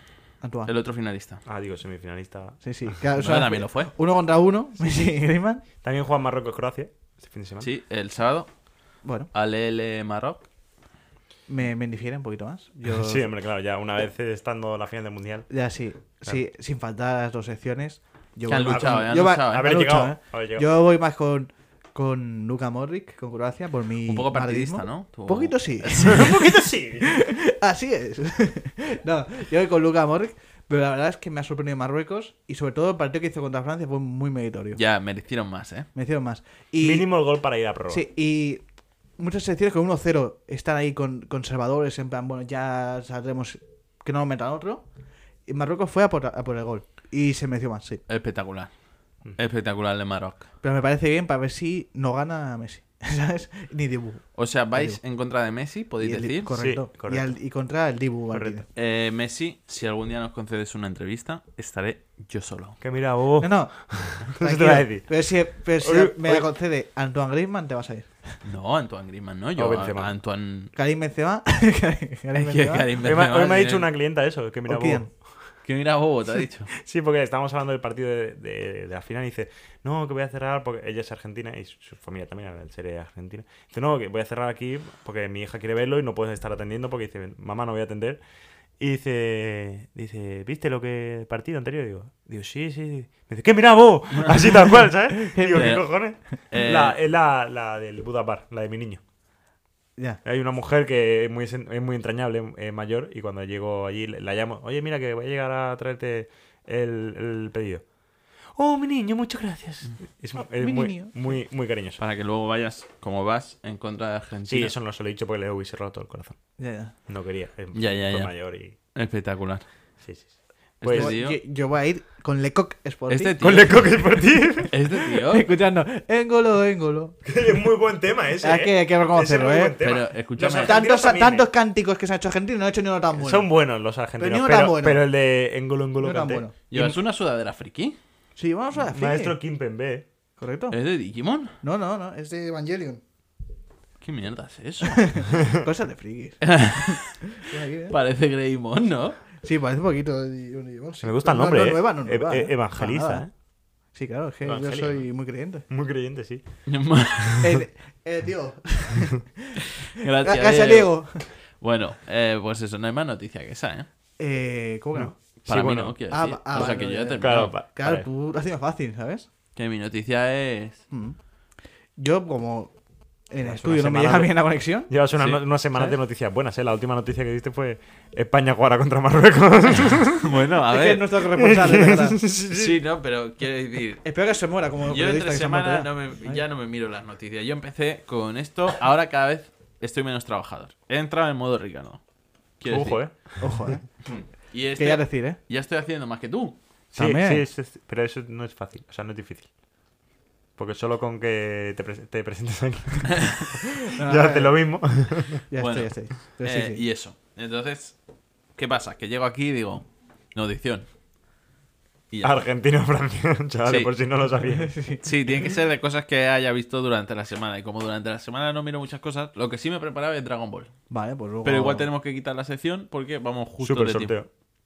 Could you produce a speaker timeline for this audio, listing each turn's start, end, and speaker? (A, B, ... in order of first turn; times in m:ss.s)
0:00.4-0:00.7 A
0:00.6-0:01.4 B
0:01.5-0:03.0 C
0:02.6-0:05.6 A
0:03.2-0:03.9 B
0:05.8-0:07.7 C
0:07.6-0:08.5 B
0:09.0-0:09.3 A
0:09.3-0:10.4 B
0:11.5-0:13.3 A
0:12.9-0:15.5 C
0:15.5-0:34.8 A
0:18.5-0:19.8 B
0:18.7-0:20.7 C
0:24.1-0:26.3 B
0:26.1-0:27.2 C
0:34.8-0:35.9 B
0:36.0-0:37.1 A
0:36.8-0:38.0 C
0:37.9-0:38.6 A
0:39.2-0:44.8 A
0:45.5-0:48.0 A
0:48.1-0:48.7 B
0:49.4-0:50.5 B
0:50.6-0:55.0 A
0:54.3-0:56.6 B
0:56.0-0:58.7 A
0:56.6-0:57.3 C
0:58.3-0:58.6 C
0:58.8-1:02.8 B
1:02.8-1:06.4 C
1:03.4-1:08.4 A
1:08.4-1:10.7 B
1:09.6-1:10.1 C
1:10.8-1:12.9 A
1:12.4-1:13.9 B
1:13.0-1:15.3 C
1:14.7-1:15.1 A
1:15.6-1:16.7 B
1:16.8-1:28.2 C
1:28.8-1:39.0 C
1:35.2-1:35.8 A
1:35.5-1:35.9 B
1:36.5-1:37.0 B
1:40.2-1:47.8 C
1:48.6-1:52.0 C
1:50.4-1:51.1 A
1:52.0-1:54.7 B
1:54.5-1:56.4 C
1:56.6-1:56.9 A
1:57.1-1:58.8 C
1:57.7-1:59.6 B
2:00.0-2:01.1 C
2:00.8-2:01.4 B
2:00.9-2:03.7 A
2:03.1-2:03.9 B
2:03.4-2:04.8 C
2:04.7-2:05.5 B
2:05.3-2:07.2 A
2:07.3-2:11.5 C
2:08.4-2:09.8 A
2:09.8-2:10.8 B
2:10.4-2:13.5 A
2:13.2-2:16.4 C
2:14.2-2:15.1 A
2:16.0-2:17.0 A
2:16.7-2:18.0 B
2:18.4-2:19.4 A
2:18.9-2:20.0 C
2:20.4-2:20.8 A
2:20.7-2:21.5 B
2:21.6-2:23.0 A
2:24.0-2:25.0 B
2:24.9-2:28.0 A
2:26.4-2:27.4 B
2:27.9-2:29.2 B
2:29.4-2:33.3 A
2:31.0-2:33.3 C
2:33.9-2:35.6 A
2:34.4-2:35.2 C
2:35.7-2:37.1 C
2:36.7-2:37.4 B
2:37.4-2:39.3 A
2:39.9-2:43.9 B
2:40.2-2:41.3 A
2:44.2-2:45.1 A
2:44.9-2:46.0 C
2:45.4-2:47.6 B
2:46.1-2:49.3 A
2:46.6-2:48.0 C
2:49.6-2:50.8 B
2:50.9-2:51.2 A
2:52.0-2:52.8 A
2:53.3-2:54.9 A
2:53.4-3:00.3 C
2:55.2-2:55.4 B
2:59.9-3:01.1 B
3:00.7-3:02.2 A
3:01.3-3:02.8 C
3:02.5-3:04.0 B
3:04.0-3:06.4 A
3:04.9-3:12.0 B
3:12.6-3:13.0 B
3:12.7-3:13.5 C
3:13.4-3:13.9 A
3:14.0-3:16.6 B
3:14.8-3:15.4 A
3:16.9-3:17.4 A
3:16.9-3:19.5 C
3:20.6-3:25.4 C
3:23.9-3:24.6 A
3:25.5-3:26.8 A
3:25.6-3:28.0 B
3:28.6-3:30.9 B
3:32.1-3:32.5 B
3:32.2-3:35.0 C
3:33.7-3:33.9 B
3:34.6-3:35.0 A
3:35.0-3:40.7 B
3:40.9-3:41.9 A
3:41.4-3:44.2 B
3:43.6-3:44.3 C